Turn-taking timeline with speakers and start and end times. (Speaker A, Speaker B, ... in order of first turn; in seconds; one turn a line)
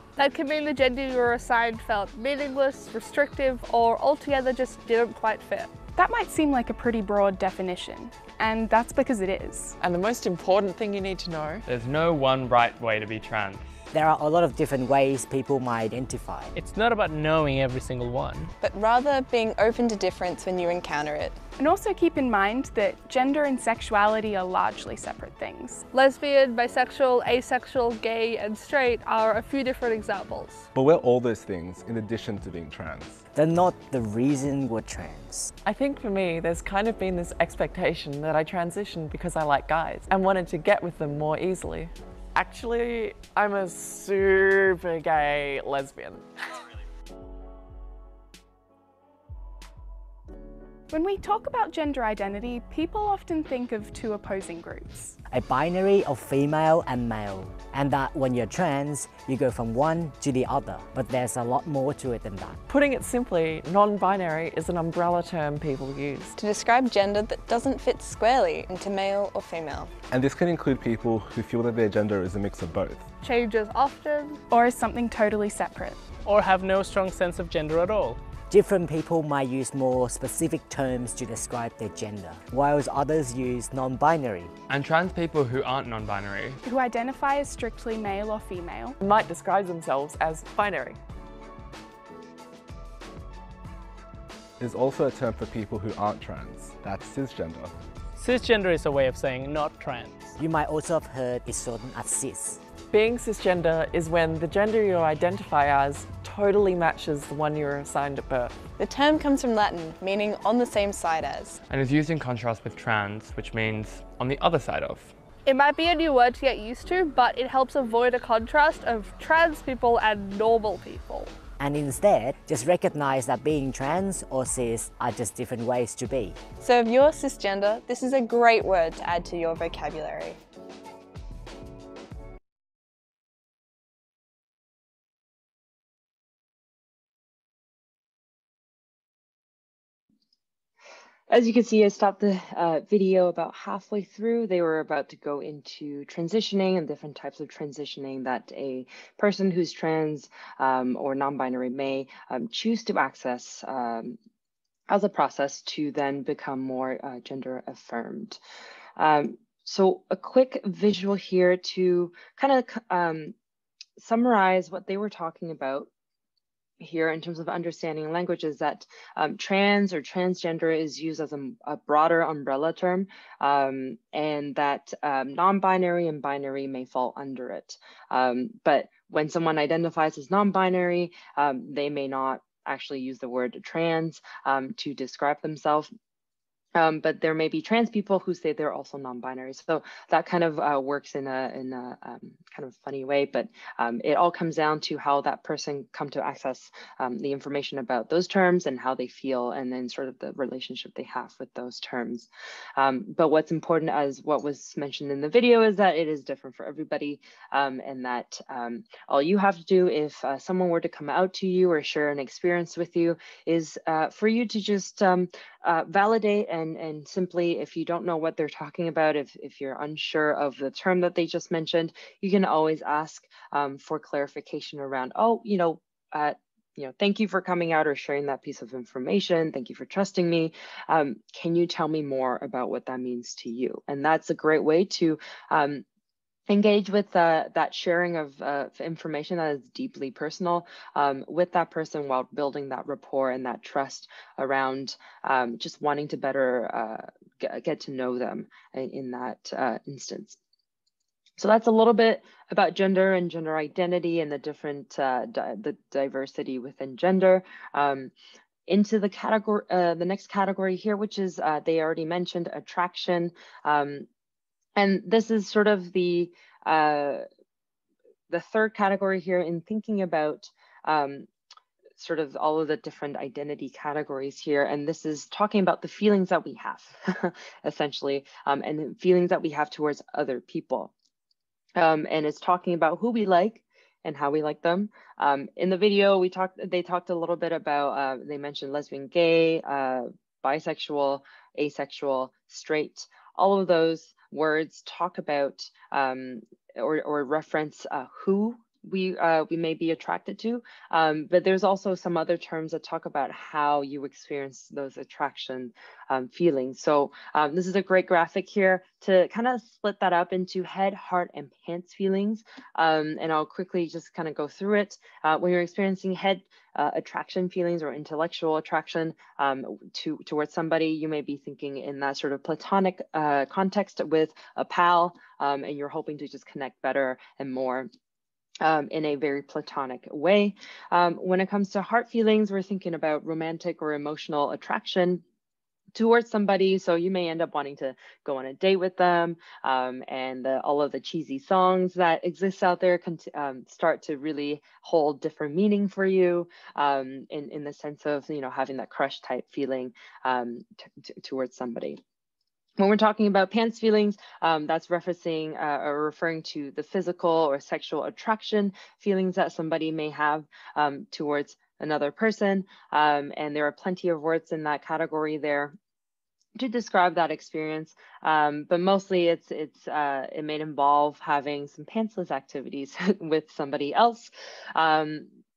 Speaker A: 0.2-5.8
Speaker B: 6.0-9.8
Speaker C: 9.8-11.7
Speaker D: 11.7-13.6
Speaker E: 13.9-16.5
Speaker F: 16.6-18.5
Speaker G: 18.6-21.4
Speaker B: 21.6-25.9
Speaker A: 25.9-30.7
Speaker H: 30.8-33.2
Speaker E: 33.3-35.5
Speaker C: 35.6-46.4
Speaker B: 50.9-55.2
Speaker E: 55.3-62.6
Speaker C: 62.7-66.3
Speaker G: 66.4-69.9
Speaker H: 70.1-73.1
Speaker A: 73.2-74.4
Speaker B: 74.5-76.0
Speaker F: 76.2-78.2
Speaker E: 78.5-84.5
Speaker D: 84.7-86.6
Speaker B: 86.6-89.0
Speaker C: 89.0-91.0
Speaker H: 94.6-97.7
Speaker F: 98.2-100.3
Speaker E: 100.4-102.6
Speaker C: 102.9-108.7
Speaker G: 108.8-111.6
Speaker D: 111.7-115.1
Speaker A: 115.5-121.3
Speaker E: 121.6-126.4
Speaker G: 126.6-130.4
Speaker I: 141.3-154.2
Speaker I: 154.9-158.4
Speaker I: 159.0-163.3
Speaker I: 164.0-165.9
Speaker I: 166.8-185.9
Speaker I: 186.8-235.8
Speaker I: 236.5-250.4
Speaker I: 251.4-258.1
Speaker I: 258.7-264.1
Speaker I: 264.8-267.2
Speaker I: 268.3-271.3
Speaker I: 272.0-280.9
Speaker I: 281.8-327.9
Speaker I: 328.6-335.2
Speaker I: 335.9-352.0
Speaker I: 352.8-365.8
Speaker I: 366.6-375.4